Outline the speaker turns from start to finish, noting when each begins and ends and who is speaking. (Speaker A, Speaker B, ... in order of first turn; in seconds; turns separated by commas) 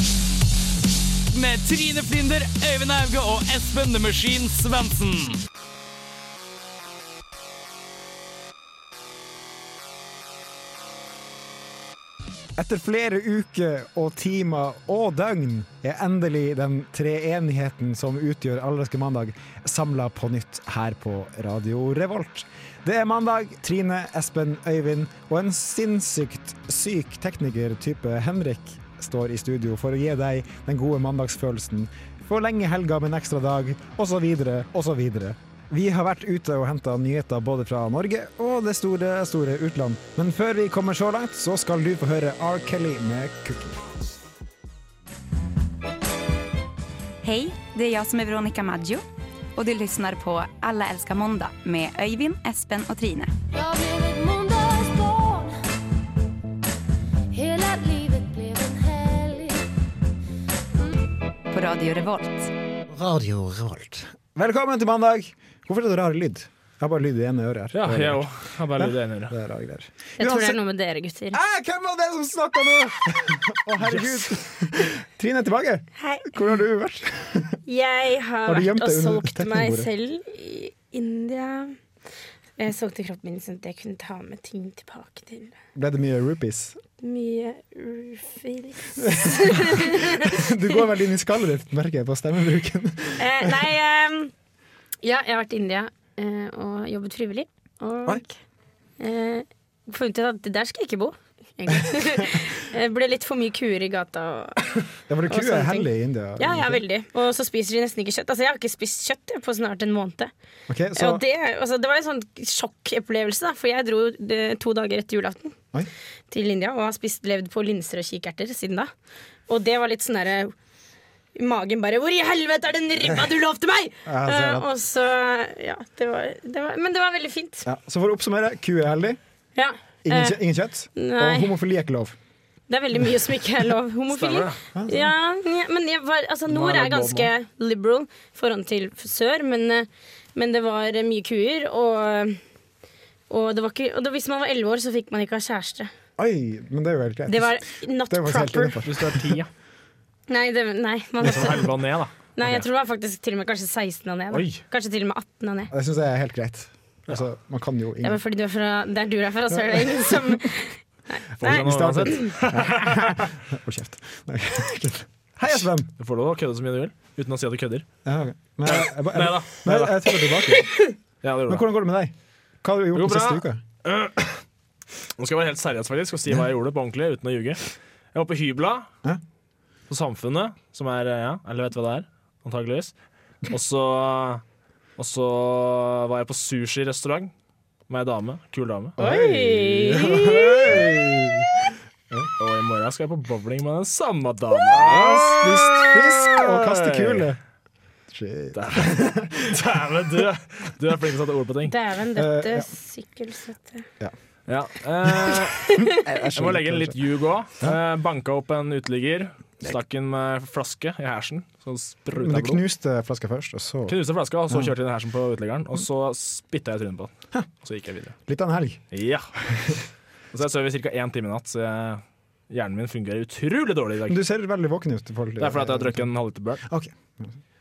Speaker A: 1.3-5.4, Speaker B: 12.6-43.9, Speaker C: 47.2-49.0, Speaker C: 49.5-53.3, Speaker D: 53.5-55.5, Speaker D: 57.3-59.6, Speaker C: 61.5-62.5, Speaker B: 62.9-70.6, Speaker E: 67.7-69.4, Speaker F: 70.2-71.4, Speaker B: 71.3-77.6, Speaker E: 73.8-74.3, Speaker F: 76.0-76.3, Speaker F: 77.7-81.8, Speaker B: 78.5-79.9, Speaker F: 82.6-85.5, Speaker B: 85.7-86.8, Speaker F: 87.0-90.7, Speaker B: 89.0-93.6, Speaker F: 93.2-94.3, Speaker F: 95.0-98.3, Speaker F: 99.0-104.7, Speaker B: 105.1-106.8, Speaker F: 105.3-110.3, Speaker B: 110.7-111.2, Speaker F: 111.0-115.5, Speaker F: 116.3-118.9, Speaker F: 119.5-120.5, Speaker F: 121.3-127.7, Speaker B: 124.0-124.7, Speaker B: 127.7-129.2, Speaker F: 129.6-130.4, Speaker B: 130.0-132.2, Speaker F: 130.9-131.5, Speaker F: 132.7-142.4, Speaker E: 134.1-134.6, Speaker B: 134.8-135.1, Speaker E: 136.5-137.3, Speaker F: 143.3-145.9, Speaker B: 146.2-149.3, Speaker F: 147.3-148.8, Speaker E: 148.8-149.5, Speaker F: 150.3-151.7, Speaker E: 151.2-152.6, Speaker F: 152.3-155.7, Speaker E: 154.3-154.6, Speaker B: 155.7-158.2, Speaker F: 158.0-162.3, Speaker B: 159.7-160.4, Speaker B: 161.4-165.9, Speaker E: 161.4-163.2, Speaker E: 166.0-167.8, Speaker B: 168.1-170.7, Speaker E: 168.7-169.9, Speaker E: 171.2-171.6, Speaker B: 171.5-173.6, Speaker E: 172.9-174.4, Speaker E: 175.2-178.9, Speaker E: 179.9-182.9, Speaker E: 183.5-184.4, Speaker E: 185.0-187.3, Speaker E: 187.9-189.0, Speaker B: 189.0-191.5, Speaker F: 189.0-190.6, Speaker E: 192.4-197.3, Speaker B: 194.7-197.4, Speaker B: 198.1-199.5, Speaker E: 198.5-201.7, Speaker F: 201.7-203.8, Speaker B: 202.1-202.7, Speaker E: 204.5-205.6, Speaker B: 205.8-206.9, Speaker E: 206.3-212.6, Speaker B: 212.1-214.0, Speaker E: 213.9-218.1, Speaker B: 218.3-218.8, Speaker E: 218.9-219.3, Speaker E: 220.3-224.2, Speaker B: 224.1-226.0, Speaker E: 225.4-226.6, Speaker B: 226.6-227.3